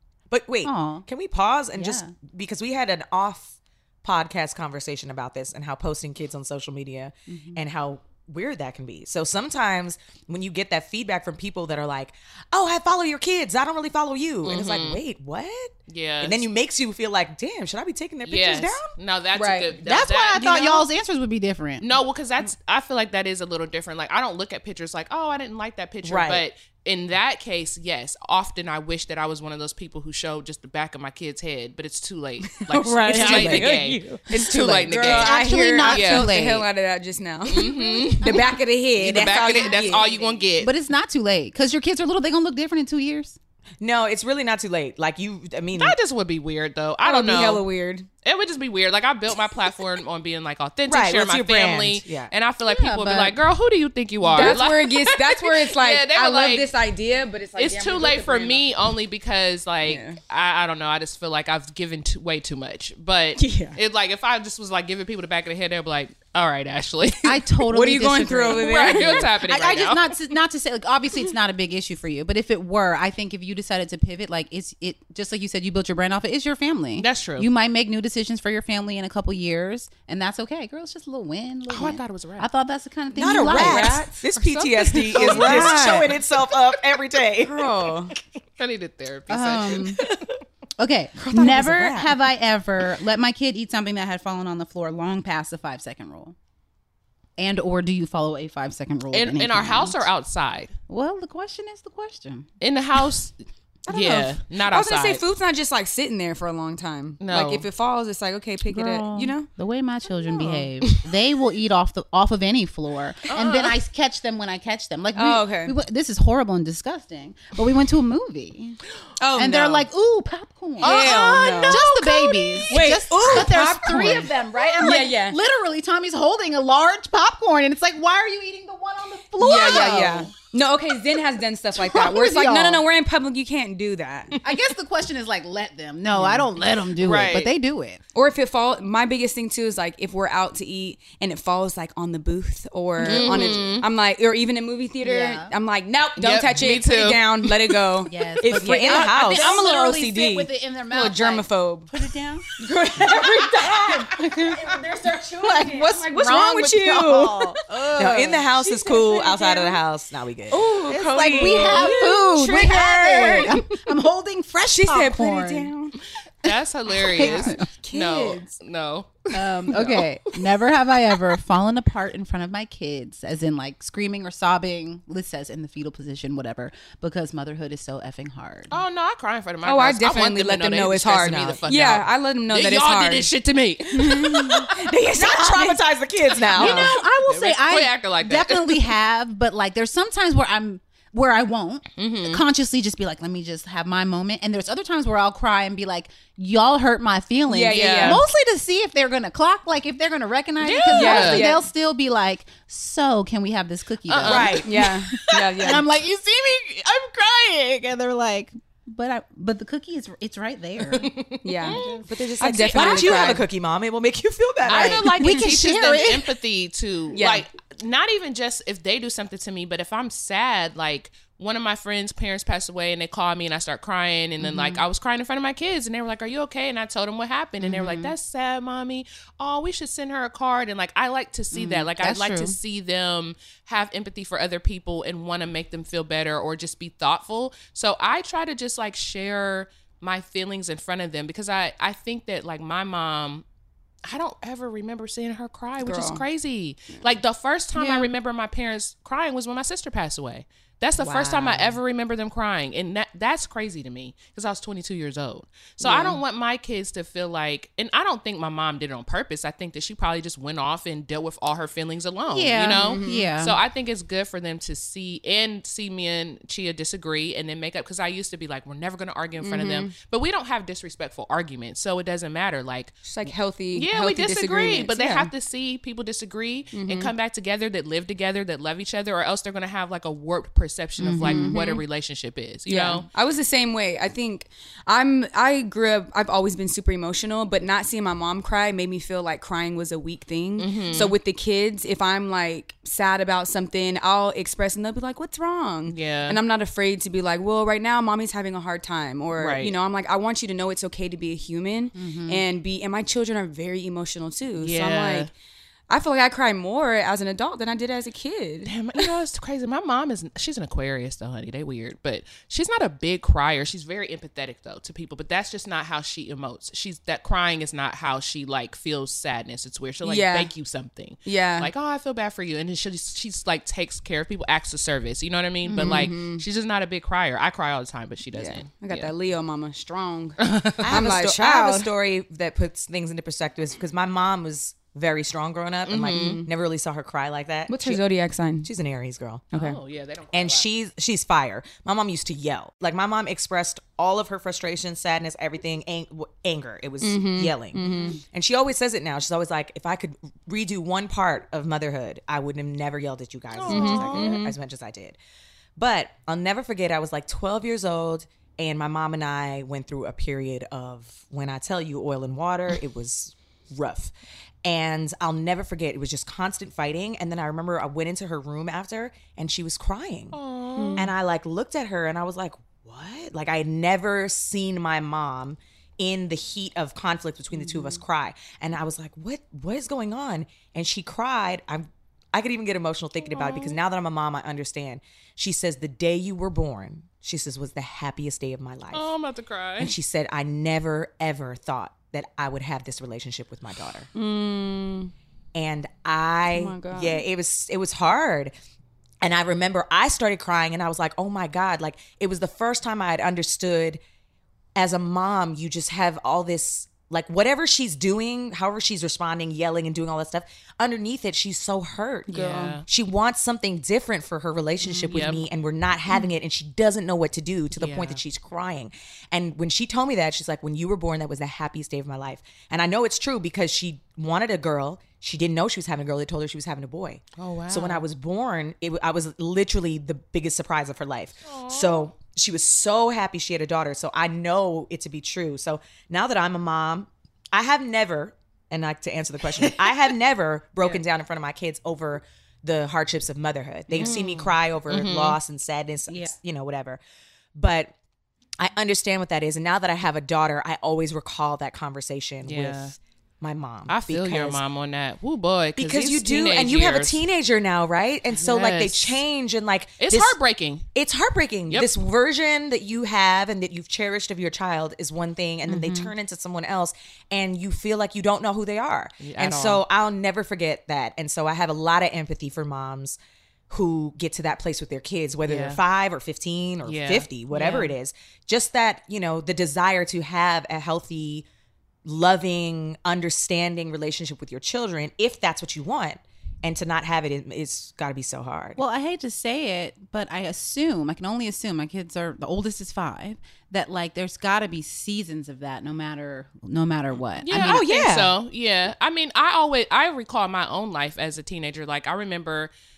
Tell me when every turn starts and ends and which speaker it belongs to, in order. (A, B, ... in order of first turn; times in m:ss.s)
0:00.3-0:18.9 A
0:00.6-0:01.0 B
0:01.7-0:02.1 B
0:07.3-0:07.6 B
0:14.4-0:15.0 C
0:15.9-0:16.4 C
0:18.2-0:20.8 C
0:19.3-0:19.8 D
0:19.8-0:21.8 B
0:21.8-0:36.3 C
0:26.0-0:26.4 A
0:32.4-0:40.4 D
0:33.0-0:35.2 A
0:35.1-0:36.7 B
0:37.4-0:40.7 C
0:40.6-0:43.4 B
0:43.8-0:46.0 A
0:45.7-0:47.6 C
0:47.0-0:48.1 D
0:48.2-0:56.7 C
0:50.9-0:52.3 A
0:52.6-0:53.4 B
0:54.2-0:58.7 D
0:54.3-0:54.6 B
0:57.6-1:07.4 C
0:59.8-1:00.2 D
1:03.4-1:03.8 D
1:07.2-1:24.1 B
1:07.7-1:09.3 D
1:08.5-1:10.1 C
1:17.0-1:17.5 C
1:21.7-1:22.5 C
1:23.1-1:27.9 A
1:23.4-1:26.1 D
1:24.4-1:25.6 C
1:25.1-1:26.1 B
1:27.4-1:28.1 D
1:28.6-1:30.1 C
1:29.3-1:30.0 B
1:30.8-1:36.3 B
1:31.2-1:32.1 D
1:31.4-1:31.8 A
1:37.4-1:40.0 B
1:39.1-1:40.7 C
1:40.9-1:42.5 B
1:42.6-1:43.3 C
1:43.9-1:49.5 D
1:43.9-1:45.2 C
1:47.2-1:47.7 C
1:48.7-1:58.8 B
1:50.2-1:50.7 D
1:53.3-1:53.8 C
1:55.1-1:55.7 D
1:59.2-1:59.9 D
1:59.4-2:10.3 B
2:00.8-2:02.0 C
2:00.8-2:05.4 D
2:09.4-2:14.4 D
2:11.8-2:12.8 B
2:14.4-2:18.0 B
2:16.1-2:16.5 D
2:16.9-2:17.5 C
2:18.1-2:31.9 D
2:23.0-2:23.6 B
2:23.0-2:23.9 C
2:25.0-2:25.5 B
2:26.2-2:28.0 C
2:28.0-2:32.5 B
2:28.4-2:29.7 A
2:32.6-2:39.8 D
2:33.2-2:34.6 B
2:35.4-2:38.3 B
2:37.9-2:41.9 A
2:40.5-2:43.8 D
2:40.9-2:45.7 B
2:44.7-2:46.0 D
2:46.4-2:50.0 C
2:47.0-2:48.5 D
2:47.1-2:47.7 B
2:49.3-2:58.7 B
2:58.7-3:04.7 C
2:59.6-3:03.3 D
3:01.3-3:01.6 A
3:03.9-3:05.8 D
3:05.1-3:07.0 A
3:06.5-3:06.9 D
3:06.5-3:31.1 B
3:06.6-3:08.9 C
3:12.0-3:12.4 C
3:17.5-3:18.2 D
3:17.7-3:18.2 C
3:20.6-3:21.5 C
3:20.9-3:21.6 D
3:24.1-3:24.7 C
3:24.2-3:24.7 A
3:24.6-3:25.8 D
3:30.9-3:33.1 C
3:31.4-3:33.4 D
3:31.6-3:32.1 B
3:32.5-3:35.3 A
3:34.6-4:03.4 C
3:34.7-3:36.3 B
3:37.1-3:37.4 D
3:44.4-3:44.8 B
3:47.6-3:48.1 B
3:51.5-3:52.6 B
4:04.0-4:33.0 C
4:05.8-4:06.2 D
4:07.8-4:08.1 B
4:11.0-4:11.8 D
4:15.8-4:16.2 D
4:22.3-4:23.6 B
4:22.7-4:23.3 D
4:29.4-4:29.9 D
4:33.0-4:35.3 D
4:33.7-4:43.0 C
4:36.7-4:37.1 D
4:41.0-4:41.8 B
4:41.2-4:41.8 D
4:42.7-5:05.3 D
4:50.6-4:51.2 C
4:55.9-4:56.4 C
4:59.4-4:59.8 C
5:01.9-5:02.4 B
5:04.6-5:05.3 C
5:05.9-5:08.7 D
5:08.6-5:29.1 C
5:20.0-5:20.5 D
5:21.2-5:21.7 D
5:25.6-5:26.4 D
5:28.3-5:31.9 D
5:30.4-5:31.0 C
5:30.8-5:38.0 A
5:35.8-5:36.4 C
5:36.1-5:36.5 D
5:37.7-5:38.7 D
5:38.6-5:39.4 A
5:39.5-5:39.8 D
5:39.5-5:40.6 C
5:40.3-5:55.2 A
5:47.0-5:48.2 D
5:53.5-5:54.5 C
5:53.7-5:54.5 D
5:55.8-6:04.1 A
6:04.6-6:10.4 A
6:10.3-6:11.1 C
6:10.7-6:11.0 D
6:10.9-6:29.1 A
6:23.2-6:23.8 C
6:28.9-6:29.9 C
6:29.8-6:34.1 A
6:34.1-6:35.1 D
6:35.5-6:38.5 A
6:36.5-6:37.2 D
6:39.2-6:44.0 A
6:44.7-6:52.3 A
6:52.3-6:52.8 D
6:52.3-6:52.8 C
6:52.8-7:27.0 A
6:54.8-6:55.4 C
6:57.8-6:58.2 C
7:07.4-7:08.0 C
7:11.5-7:12.0 C
7:23.9-7:25.4 C
7:27.5-7:27.9 A
7:28.6-7:34.6 A
7:32.4-7:32.9 C
7:33.9-7:37.2 C
7:35.8-7:40.4 A
7:38.3-7:39.2 C
7:40.0-7:40.8 C
7:40.9-7:53.2 A
7:45.7-7:46.1 C
7:49.2-7:49.8 C
7:53.7-8:01.4 A
7:55.4-7:55.8 C
7:56.8-7:57.9 C
8:02.0-8:08.8 A
8:08.8-8:17.9 B
8:17.4-8:22.7 C
8:17.5-8:18.3 A